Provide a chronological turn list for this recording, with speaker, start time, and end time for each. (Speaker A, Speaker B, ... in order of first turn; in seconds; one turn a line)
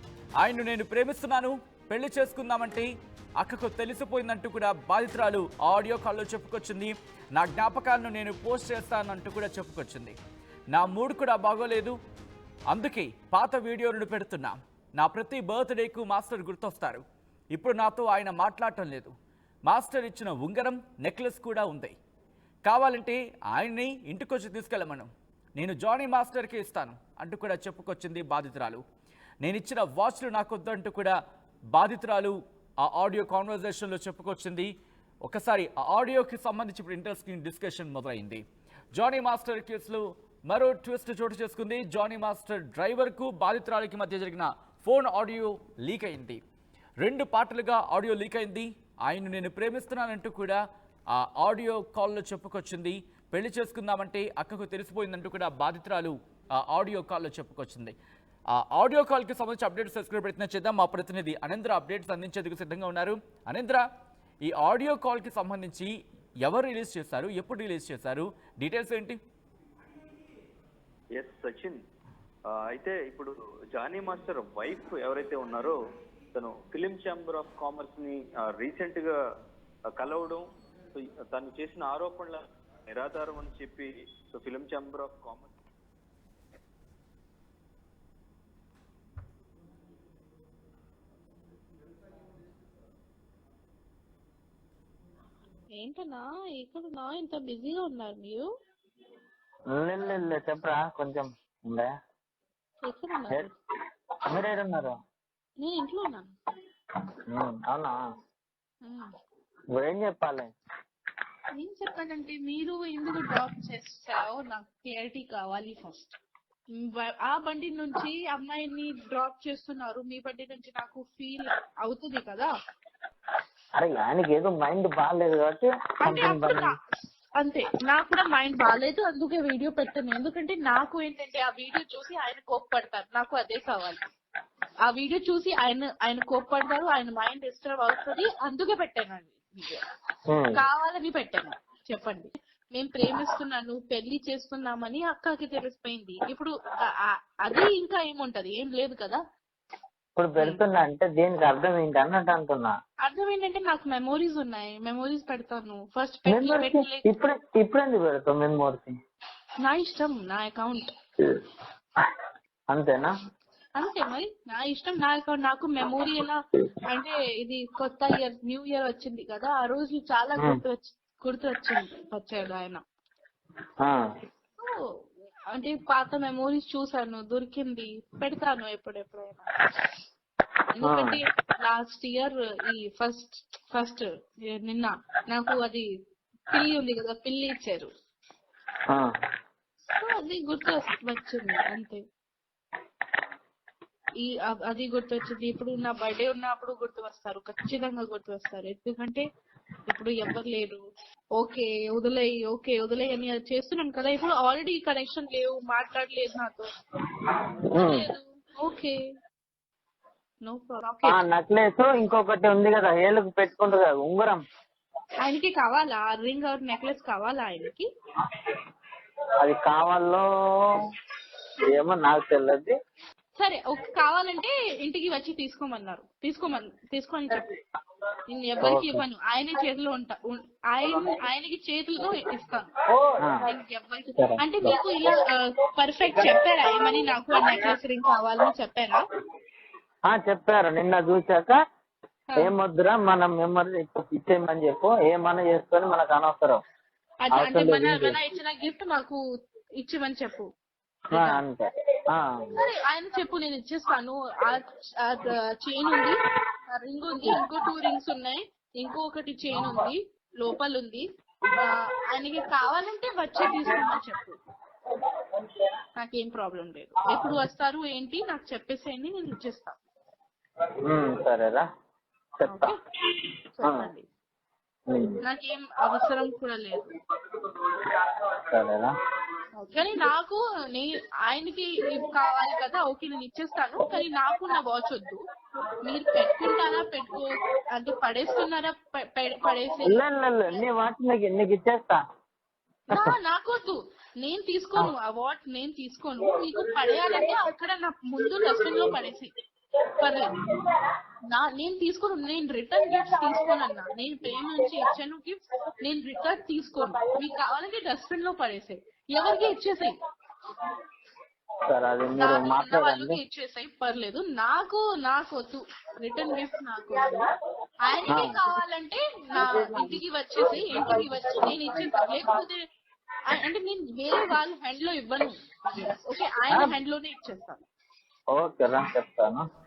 Speaker A: 0.4-10.2
Speaker A: 10.7-11.9
Speaker A: 12.7-19.1
Speaker A: 19.7-21.9
Speaker A: 22.6-28.8
Speaker A: 29.4-31.1
Speaker A: 31.7-34.7
Speaker A: 35.2-38.4
Speaker A: 38.9-46.4
Speaker A: 47.0-50.6
Speaker A: 51.1-57.9
Speaker A: 58.5-63.8
Speaker A: 64.4-65.9
Speaker A: 66.4-69.2
Speaker B: 71.1-71.8
Speaker B: 72.5-75.8
Speaker B: 76.3-79.2
Speaker B: 80.0-85.5
Speaker C: 95.8-98.5
Speaker D: 99.7-101.9
Speaker C: 102.8-103.5
Speaker D: 104.3-105.0
Speaker C: 105.6-106.3
Speaker D: 107.3-108.0
Speaker C: 108.8-109.1
Speaker D: 109.7-110.5
Speaker C: 111.5-116.2
Speaker C: 116.8-122.5
Speaker D: 123.8-126.7
Speaker C: 126.0-126.7
Speaker C: 127.4-134.0
Speaker C: 134.8-139.8
Speaker D: 140.3-140.6
Speaker C: 140.6-146.5
Speaker C: 147.1-149.2
Speaker D: 150.2-152.8
Speaker C: 153.0-157.0
Speaker D: 156.3-158.9
Speaker C: 159.6-160.9
Speaker D: 162.7-163.1
Speaker C: 163.8-172.8
Speaker C: 175.5-179.5
Speaker C: 180.8-185.8
Speaker D: 180.8-181.2
Speaker C: 186.5-187.9
Speaker C: 190.0-192.0
Speaker C: 194.2-199.2
Speaker C: 199.9-200.8
Speaker C: 201.4-206.7
Speaker D: 207.7-208.1
Speaker C: 207.8-208.9
Speaker C: 210.4-211.2
Speaker D: 211.0-214.4
Speaker C: 215.2-217.9
Speaker D: 219.4-220.2
Speaker D: 221.7-222.8
Speaker C: 223.4-227.4
Speaker C: 228.3-232.7
Speaker D: 228.6-229.0
Speaker D: 233.1-233.4
Speaker C: 233.4-239.0
Speaker D: 234.2-234.7
Speaker D: 240.1-241.6
Speaker D: 242.4-246.6
Speaker C: 247.2-249.2
Speaker D: 247.4-248.2
Speaker C: 249.8-250.4
Speaker C: 251.1-251.4
Speaker D: 251.1-252.4
Speaker C: 252.6-256.2
Speaker C: 256.7-261.0
Speaker C: 261.6-264.4
Speaker C: 266.0-269.7
Speaker D: 270.8-271.6
Speaker D: 272.4-272.7
Speaker C: 272.4-272.8
Speaker C: 273.6-274.0
Speaker D: 273.6-273.9
Speaker D: 274.9-275.2
Speaker C: 275.2-276.8
Speaker D: 277.8-278.9
Speaker C: 279.6-285.2
Speaker C: 285.8-290.6
Speaker D: 289.8-292.0
Speaker C: 292.9-299.3
Speaker C: 300.0-300.3
Speaker C: 301.3-309.9
Speaker D: 311.7-313.2
Speaker C: 312.2-317.2
Speaker C: 317.9-322.6
Speaker D: 318.1-318.4
Speaker C: 323.3-327.6
Speaker D: 328.3-329.4